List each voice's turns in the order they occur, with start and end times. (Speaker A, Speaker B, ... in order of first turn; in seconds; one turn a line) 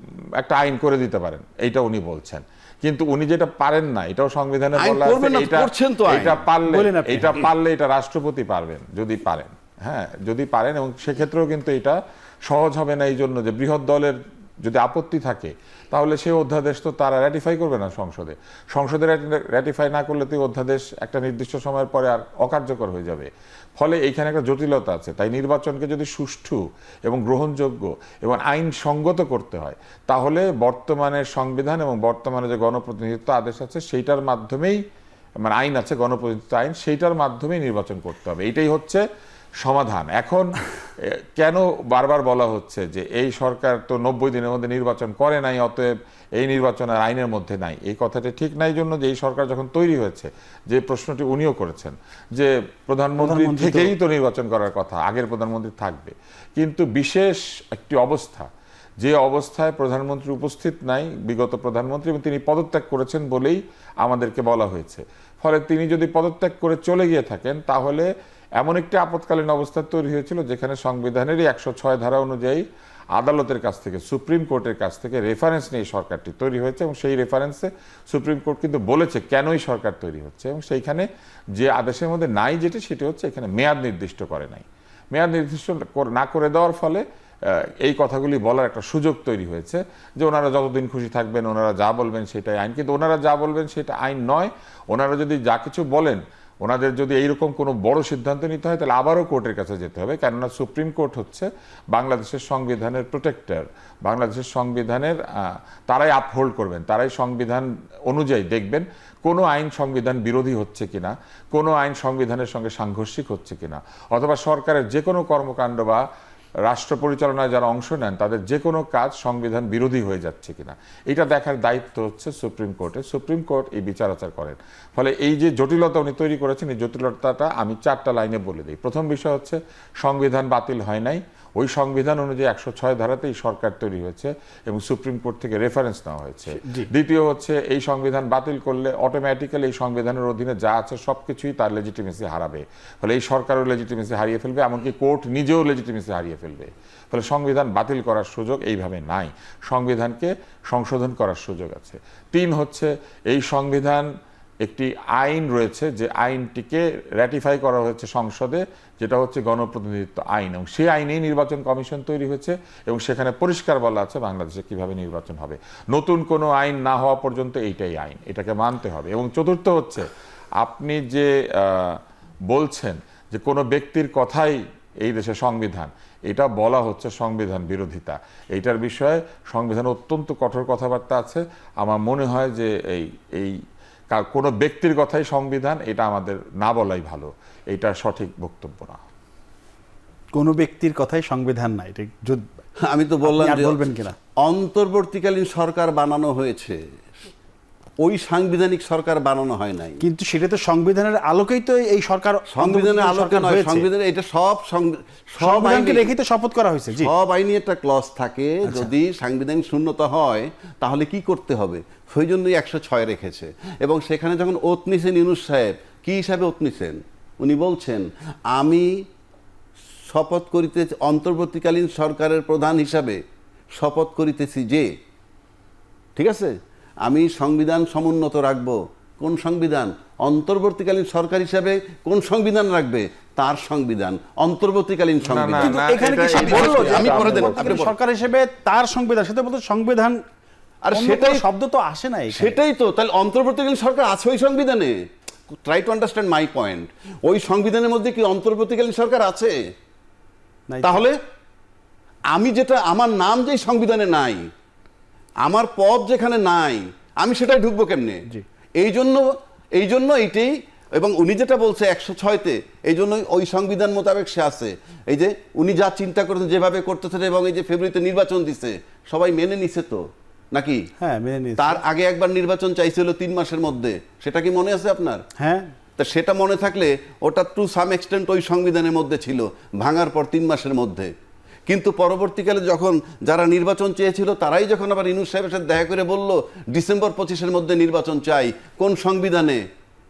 Speaker A: 0.4-34.8
Speaker B: 4.8-6.5
Speaker C: 6.7-7.5
Speaker A: 35.4-39.0
Speaker A: 39.6-58.5
Speaker C: 53.2-53.9
Speaker A: 59.0-72.6
Speaker A: 73.2-116.0
Speaker A: 116.7-154.1
Speaker C: 136.6-136.9
Speaker A: 154.6-170.1
Speaker A: 170.6-189.0
Speaker C: 190.3-192.4
Speaker B: 192.8-196.8
Speaker C: 193.2-194.2
Speaker B: 198.0-200.0
Speaker C: 200.0-203.9
Speaker B: 202.5-206.1
Speaker C: 205.4-207.1
Speaker B: 206.9-219.1
Speaker B: 220.1-223.2
Speaker B: 223.8-224.9
Speaker B: 226.2-238.0
Speaker A: 235.2-237.8
Speaker C: 235.6-240.2
Speaker B: 240.8-241.5
Speaker C: 240.9-242.6
Speaker B: 242.3-249.6
Speaker C: 250.7-251.1
Speaker B: 250.8-251.2
Speaker B: 252.3-254.5
Speaker B: 255.4-258.2
Speaker B: 258.8-270.9
Speaker C: 271.0-271.8
Speaker B: 271.6-275.2
Speaker C: 275.4-275.7
Speaker B: 276.0-281.1
Speaker B: 281.7-289.6